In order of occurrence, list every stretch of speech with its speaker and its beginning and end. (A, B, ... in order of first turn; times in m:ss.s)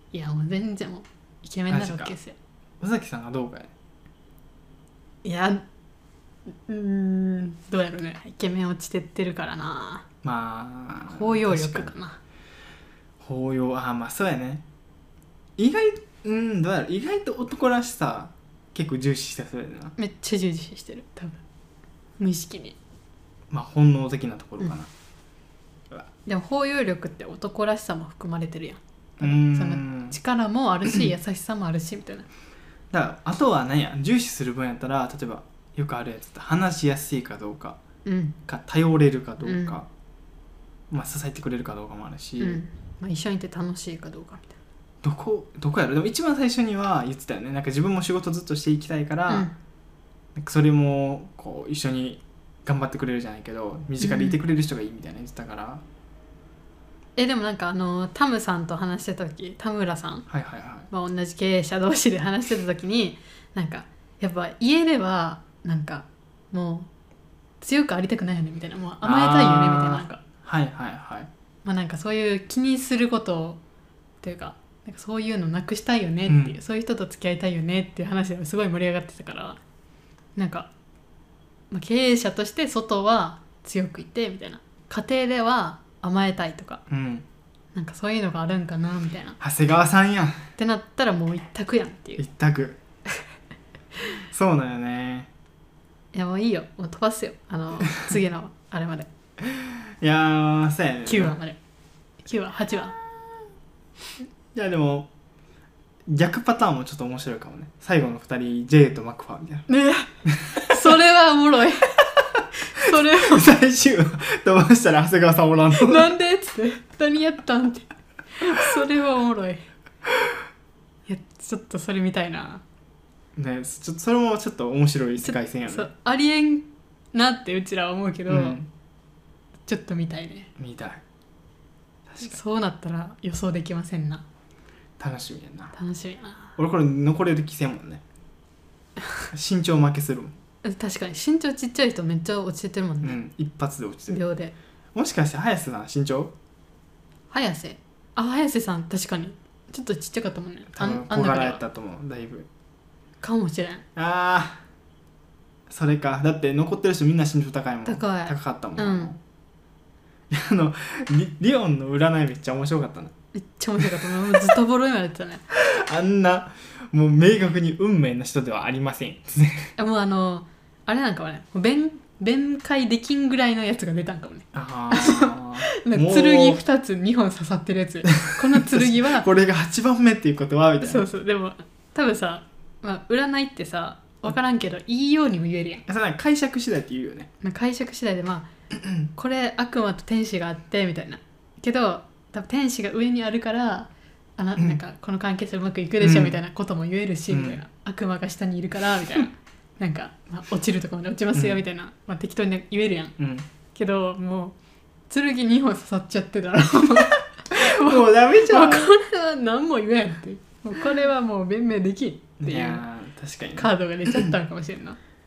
0:00.1-0:02.4 A
0:01.7-0:02.1 B
0:02.8-0:03.7 B
0:05.2-0:05.6 A
0:06.5-0:10.0 A
0:10.2-0:11.9 B
0:11.1-0:12.2 A
0:13.2-0:14.6 B
0:15.6-0:19.9 B
0:20.0-0:21.4 A
0:22.2-0:22.8 A
0:23.5-0:24.9 B
0:26.2-0:32.3 A
0:29.2-0:30.2 B
0:32.9-0:37.8 B
0:38.0-0:38.4 A
0:38.4-0:39.9 B
0:39.4-0:39.8 A
0:40.9-0:42.6 B
0:42.4-0:44.6 A
0:45.0-0:49.5 B
0:49.3-0:49.5 A
0:50.4-0:55.8 B
0:54.0-0:54.4 A
0:57.2-1:00.2 A
1:00.3-1:00.9 B
1:00.9-1:06.9 A
1:07.6-1:10.2 A
1:09.0-1:11.3 B
1:11.6-1:13.6 A
1:14.2-1:19.6 A
1:16.3-1:16.6 B
1:20.4-1:20.7 A
1:21.7-1:26.8 A
1:26.9-1:27.2 B
1:27.7-1:29.4 A
1:29.4-1:30.5 B
1:30.6-1:32.2 A
1:32.2-1:32.8 B
1:33.9-1:34.2 A
1:34.3-1:35.3 B
1:36.1-1:39.1 A
1:39.4-1:41.4 B
1:41.0-1:41.6 A
1:42.2-1:43.0 A
1:44.5-1:45.1 B
1:46.1-1:49.7 B
1:49.7-1:51.9 A
1:50.3-1:50.9 B
1:52.7-1:53.6 A
1:52.8-1:56.1 B
1:55.7-1:59.6 A
2:01.0-2:02.6 A
2:03.4-2:05.9 B
2:05.2-2:08.6 A
2:08.3-2:08.7 B
2:09.7-2:10.5 A
2:10.6-2:11.0 B
2:12.1-2:12.3 B
2:12.2-2:14.2 A
2:15.0-2:15.7 B
2:15.7-2:16.5 A
2:16.6-2:18.0 B
2:19.3-2:20.3 B
2:20.6-2:23.2 A
2:23.0-2:24.2 B
2:24.1-2:24.5 A
2:24.9-2:26.3 B
2:27.3-2:31.6 A
2:30.7-2:32.5 B
2:33.2-2:33.8 A
2:34.0-2:34.6 B
2:35.7-2:39.2 B
2:37.9-2:39.1 A
2:40.3-2:43.1 B
2:43.3-2:45.4 A
2:43.8-2:44.4 B
2:45.5-2:49.7 B
2:49.8-2:59.3 A
2:54.5-2:56.6 B
2:58.1-3:01.0 B
3:00.8-3:05.8 A
3:05.9-3:07.3 B
3:07.4-3:08.5 A
3:09.1-3:23.1 A
3:16.0-3:16.4 B
3:17.3-3:17.6 B
3:21.3-3:21.6 B
3:23.2-3:23.4 B
3:23.7-3:24.6 A
3:25.1-3:32.8 A
3:27.5-3:29.0 B
3:32.4-3:34.3 B
3:33.6-3:35.0 A